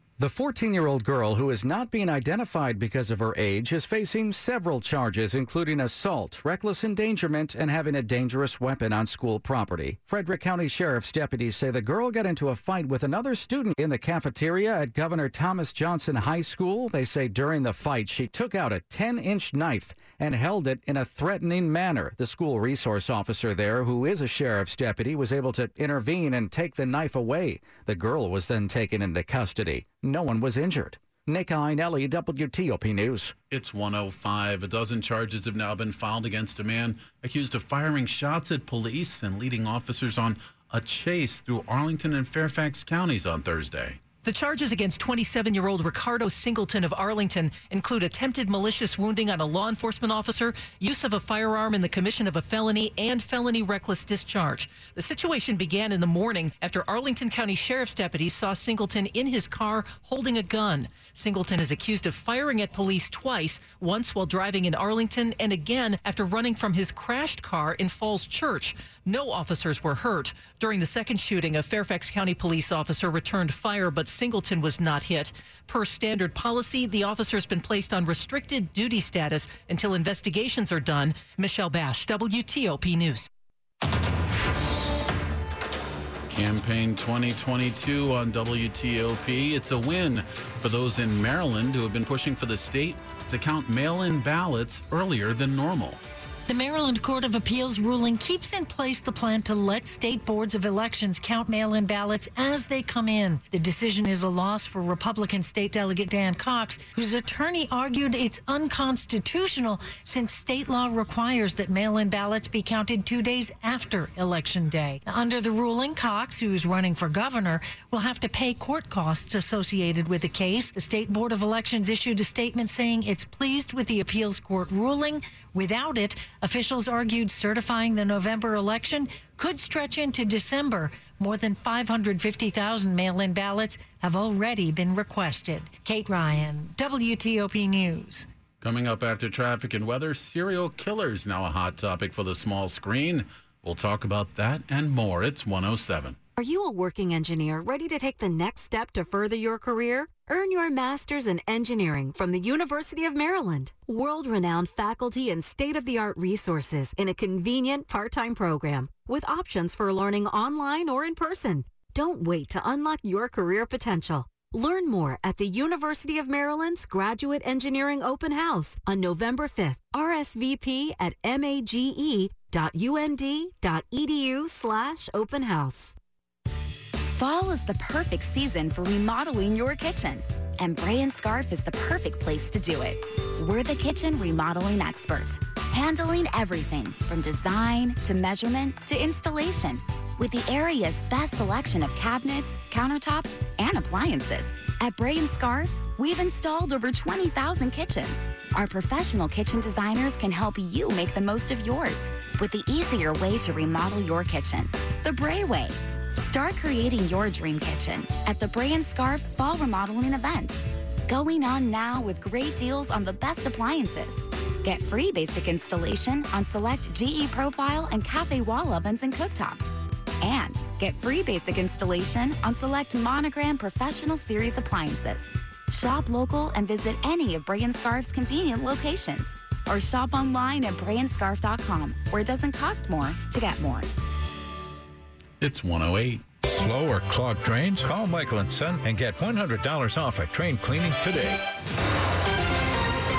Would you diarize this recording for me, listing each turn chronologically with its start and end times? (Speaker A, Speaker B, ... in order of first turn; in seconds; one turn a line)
Speaker A: 0.2-33.3
Speaker B: 33.5-44.0
Speaker C: 44.2-83.3
Speaker B: 86.3-96.0
Speaker D: 96.5-138.3
Speaker B: 138.6-146.2
Speaker E: 146.4-175.9
Speaker F: 177.1-233.9
Speaker B: 235.4-236.2
Speaker G: 236.4-241.4